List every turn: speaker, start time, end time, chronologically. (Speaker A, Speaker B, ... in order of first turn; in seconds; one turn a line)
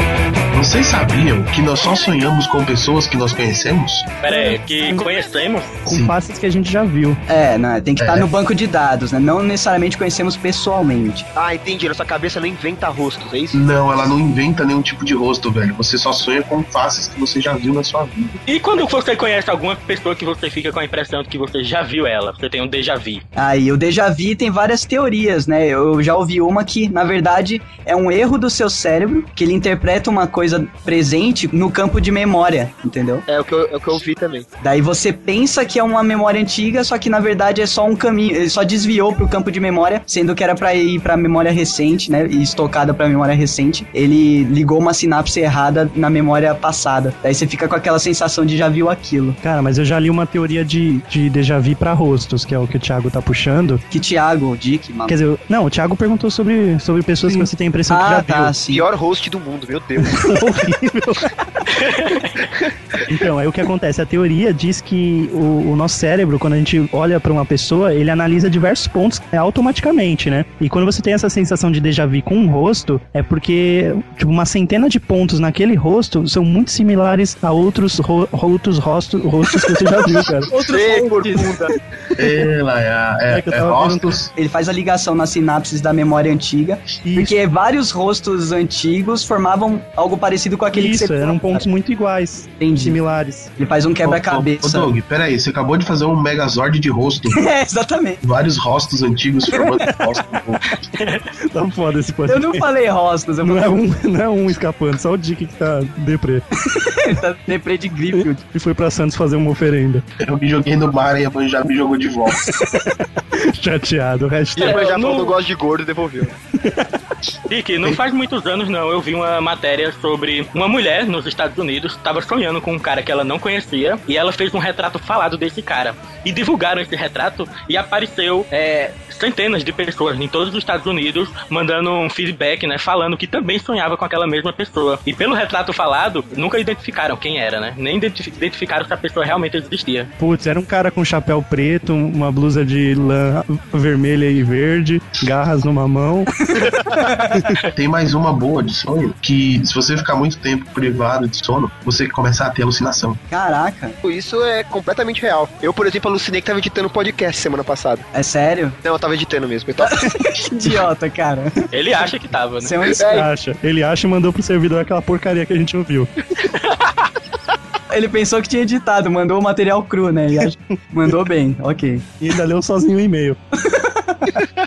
Speaker A: 0.5-4.1
Speaker B: 4.2-5.8
Speaker C: 4.3-5.0
Speaker A: 5.8-6.2
Speaker C: 5.8-7.2
Speaker D: 7.3-11.3
Speaker A: 8.0-8.3
Speaker E: 11.3-13.6
Speaker A: 13.5-18.4
Speaker B: 18.5-23.2
Speaker D: 23.4-33.2
Speaker E: 33.3-34.5
Speaker D: 34.6-49.4
Speaker C: 49.4-53.8
Speaker D: 53.9-55.2
Speaker C: 55.1-58.5
Speaker D: 57.2-58.8
Speaker E: 58.7-60.3
Speaker C: 60.0-61.4
Speaker B: 61.7-62.4
Speaker C: 63.1-80.5
Speaker D: 80.5-81.7
Speaker E: 80.5-81.7
Speaker A: 82.2-84.3
Speaker C: 83.3-84.2
Speaker D: 84.3-91.7
Speaker C: 87.0-87.3
Speaker C: 90.7-93.5
Speaker D: 92.6-93.0
Speaker D: 93.6-94.9
Speaker A: 94.0-97.4
Speaker D: 97.3-98.2
Speaker A: 98.2-100.6
Speaker B: 100.9-101.2
Speaker C: 101.5-102.6
Speaker D: 102.3-103.8
Speaker C: 103.4-106.4
Speaker D: 106.7-108.4
Speaker C: 108.4-110.0
Speaker A: 110.2-112.5
Speaker C: 112.7-114.8
Speaker E: 114.5-116.3
Speaker B: 114.6-115.3
Speaker C: 116.6-116.9
Speaker B: 117.5-140.1
Speaker C: 140.2-146.3
Speaker D: 146.4-147.4
Speaker A: 147.7-153.2
Speaker D: 153.3-154.0
Speaker E: 154.0-158.1
Speaker D: 158.1-158.8
Speaker E: 158.8-160.1
Speaker D: 159.8-161.7
Speaker B: 161.7-162.8
Speaker D: 162.6-163.2
Speaker E: 162.9-163.3
Speaker C: 163.1-166.1
Speaker B: 166.7-166.9
Speaker D: 167.9-172.1
Speaker C: 172.2-173.4
Speaker D: 173.7-174.3